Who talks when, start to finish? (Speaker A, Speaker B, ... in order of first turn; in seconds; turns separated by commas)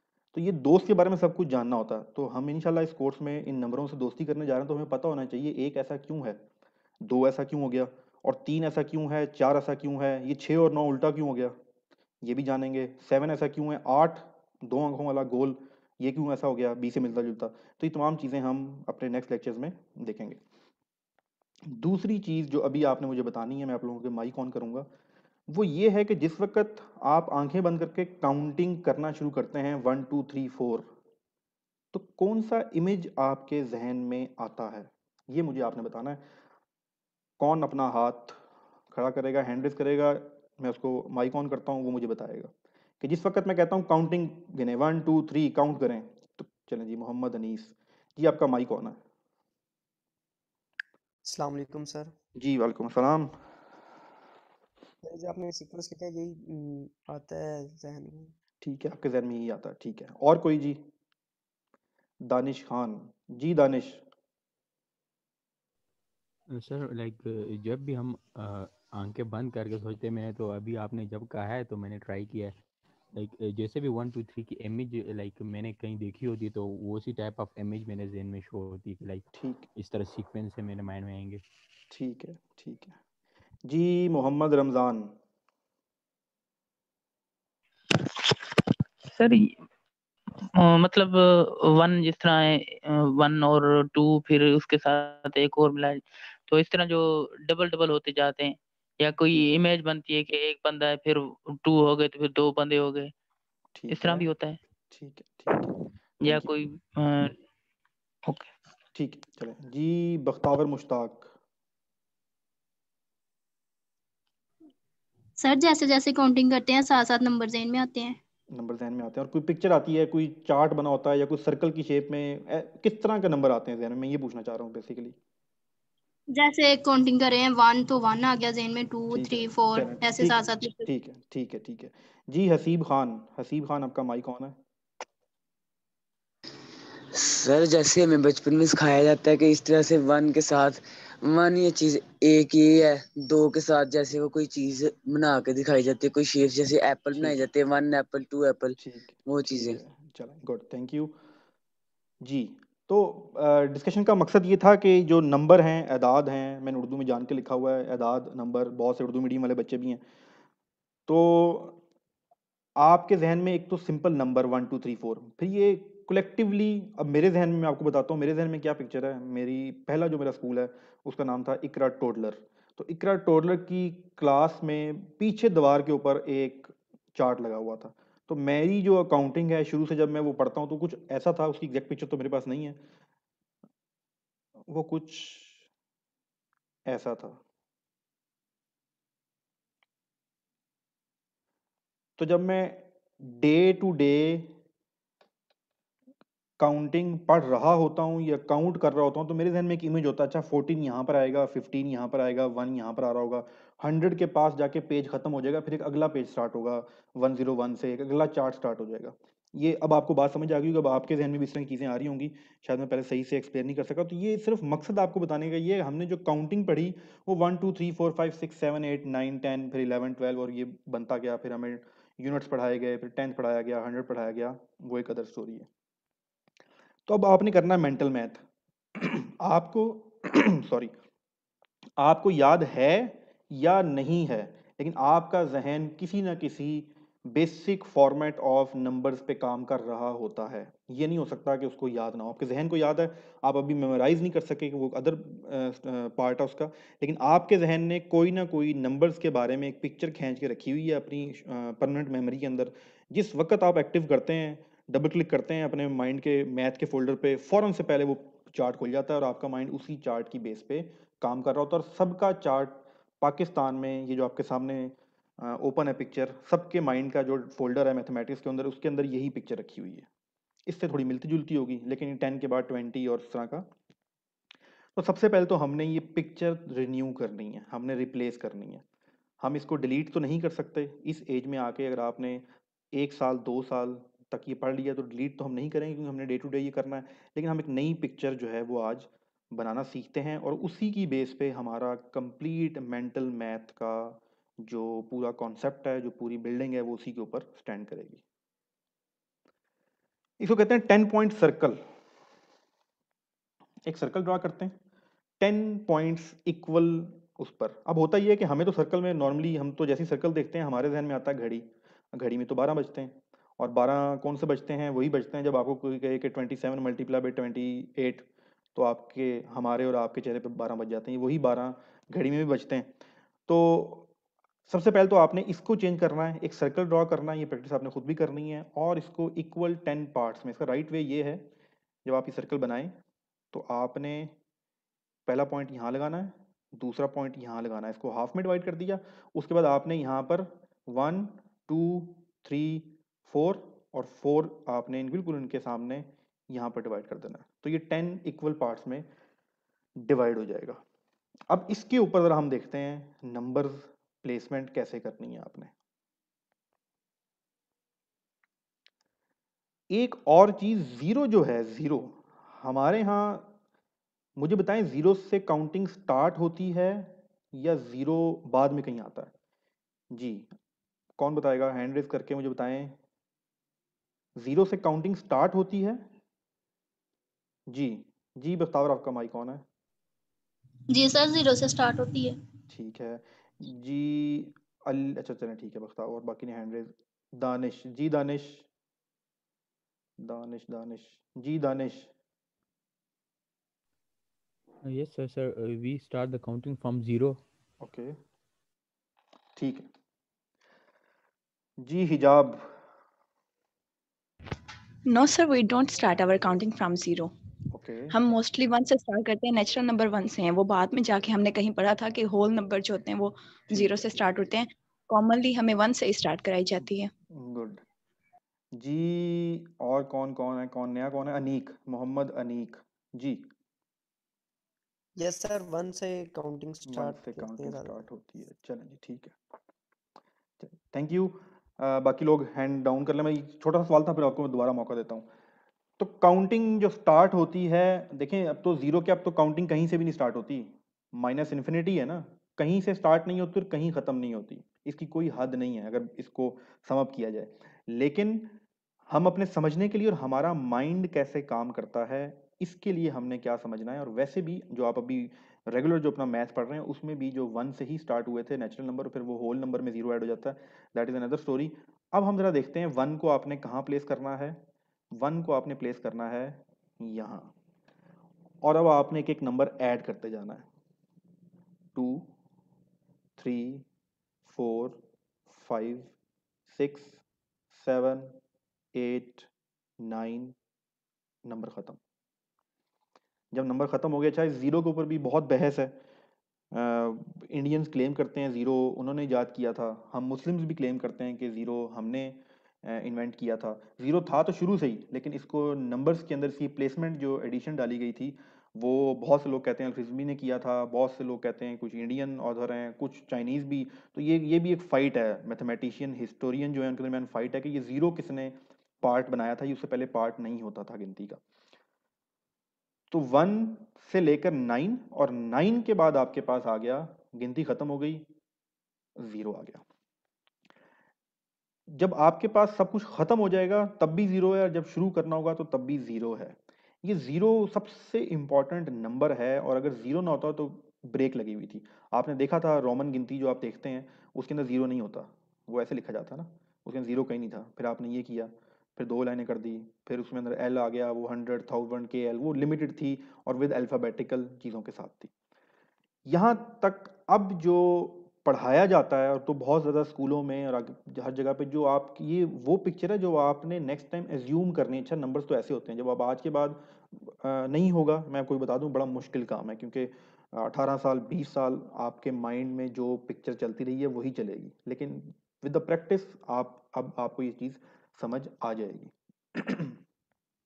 Speaker A: 0.3-6.4, Speaker A: 7.0-11.6, Speaker A: 12.2-20.4, Speaker A: 21.6-24.9, Speaker A: 25.5-30.9, Speaker A: 31.9-36.2, Speaker A: 37.4-38.4, Speaker A: 38.9-49.0, Speaker B: 51.2-52.1, Speaker A: 52.4-53.4, Speaker B: 55.0-58.3, Speaker A: 58.6-60.9, Speaker A: 62.2-64.0, Speaker C: 66.5-72.5, Speaker C: 73.1-81.4, Speaker A: 79.3-79.7, Speaker A: 81.9-83.0, Speaker A: 83.7-85.1, Speaker D: 89.1-89.5, Speaker D: 90.6-103.1, Speaker A: 103.7-104.3, Speaker D: 103.9-104.6, Speaker A: 104.9-105.7, Speaker D: 106.2-107.3, Speaker A: 106.2-106.5, Speaker A: 108.3-111.3, Speaker E: 115.4-118.2, Speaker A: 118.5-125.2, Speaker E: 126.3-130.9, Speaker A: 129.1-134.6, Speaker F: 137.1-148.8, Speaker A: 147.1-147.4, Speaker A: 148.7-151.1, Speaker F: 149.3-149.8, Speaker A: 152.2-160.0, Speaker A: 161.1-161.8, Speaker A: 162.8-182.8, Speaker A: 184.7-185.6, Speaker A: 186.9-187.4, Speaker A: 192.2-194.5, Speaker A: 196.6-225.7, Speaker A: 227.1-228.4, Speaker A: 228.9-230.9, Speaker A: 232.0-270.1, Speaker A: 270.7-273.7, Speaker A: 274.9-278.8, Speaker A: 279.4-298.2, Speaker A: 300.4-301.8, Speaker A: 303.9-304.8, Speaker A: 305.4-322.9, Speaker A: 323.5-324.1, Speaker A: 324.7-331.4, Speaker A: 332.0-332.9, Speaker A: 333.5-334.3, Speaker A: 335.3-349.1, Speaker A: 350.0-350.8, Speaker A: 351.5-355.7, Speaker A: 359.9-363.5, Speaker A: 364.4-369.3, Speaker A: 370.1-370.5, Speaker A: 371.2-373.0, Speaker A: 374.4-376.1, Speaker A: 377.7-379.6, Speaker E: 380.9-382.4, Speaker A: 382.7-388.6, Speaker A: 390.2-392.1, Speaker C: 394.8-397.4, Speaker A: 397.8-398.2, Speaker A: 399.6-399.9, Speaker A: 401.8-402.7, Speaker G: 405.1-407.3, Speaker A: 407.7-408.1, Speaker G: 408.1-417.1, Speaker A: 413.7-414.1, Speaker A: 416.8-417.8, Speaker A: 418.8-423.5, Speaker B: 425.2-428.0, Speaker A: 426.9-429.3, Speaker A: 430.6-435.3, Speaker A: 436.0-448.5, Speaker A: 449.1-464.6, Speaker A: 465.1-467.5, Speaker A: 468.6-470.6, Speaker A: 471.9-472.3, Speaker A: 473.4-473.9, Speaker A: 474.4-476.1, Speaker A: 476.7-477.2, Speaker A: 477.7-478.3, Speaker A: 478.9-479.5, Speaker A: 480.0-480.5, Speaker A: 481.4-482.0, Speaker A: 483.5-486.0, Speaker A: 486.7-511.4, Speaker A: 513.1-518.2, Speaker A: 519.2-519.8, Speaker A: 521.9-545.3, Speaker A: 546.2-570.0